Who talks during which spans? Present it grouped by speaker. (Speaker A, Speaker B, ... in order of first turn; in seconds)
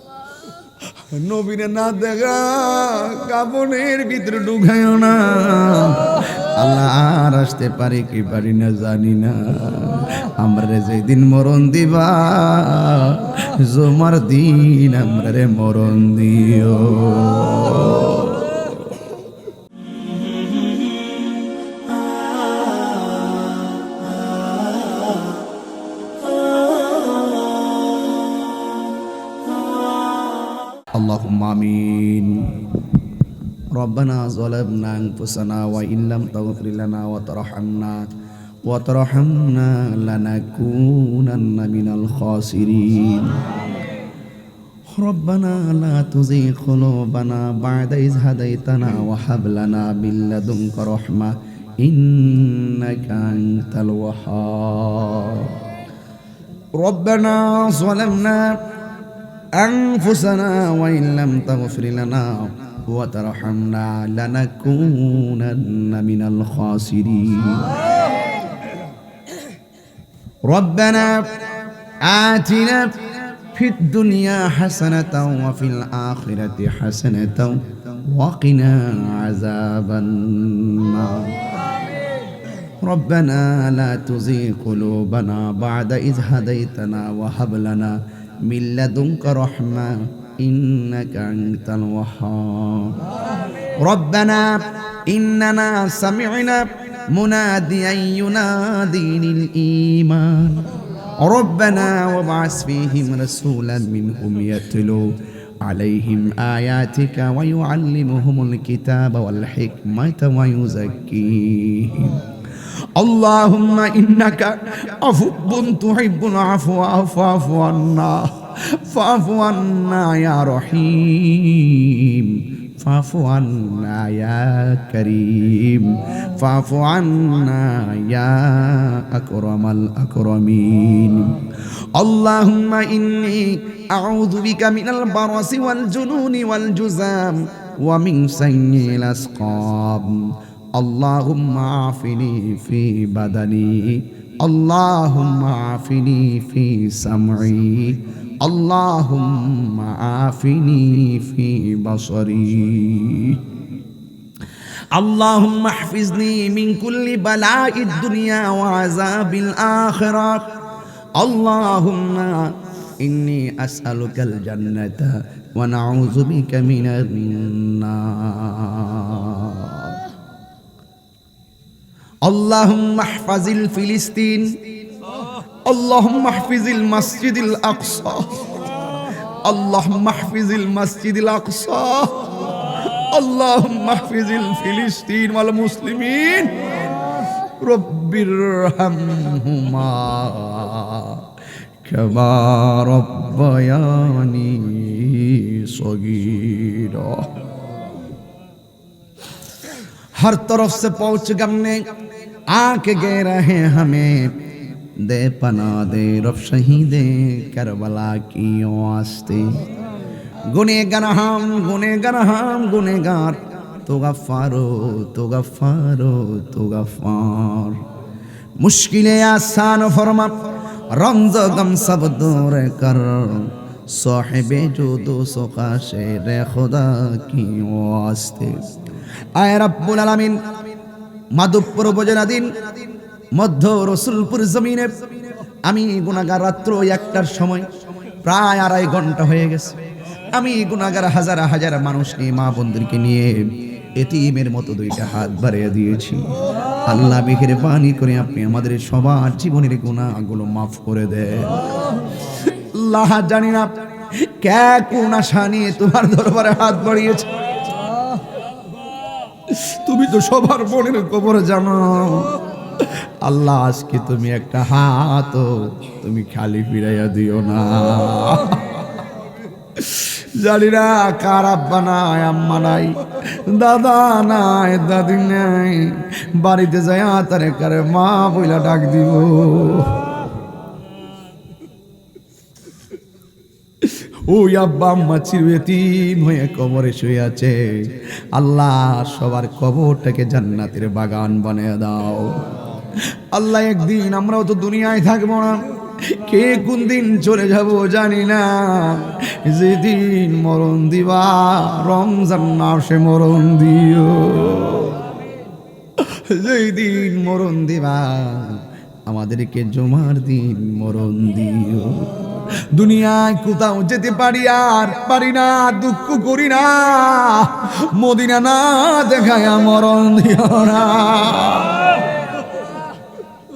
Speaker A: 1.1-18.7, 30.9-32.9, 33.8-38.1, 38.7-43.7, 44.9-55.6, 56.8-58.6, 59.6-67.8, 70.5-71.5, 72.0-81.5, 82.8-93.1, 93.8-112.3, 113.0-153.6, 154.9-160.5, 161.2-170.0, 172.2-174.6, 175.6-178.7, 179.4-187.0, 187.6-191.3, 191.8-197.5, 200.2-201.9, 202.5-209.7, 210.4-217.9, 218.6-230.4, 231.3-235.1, 235.7-237.7, 238.2-239.8, 240.3-257.4, 259.5-268.9, 269.7-280.1, 283.8-305.1, 306.0-321.9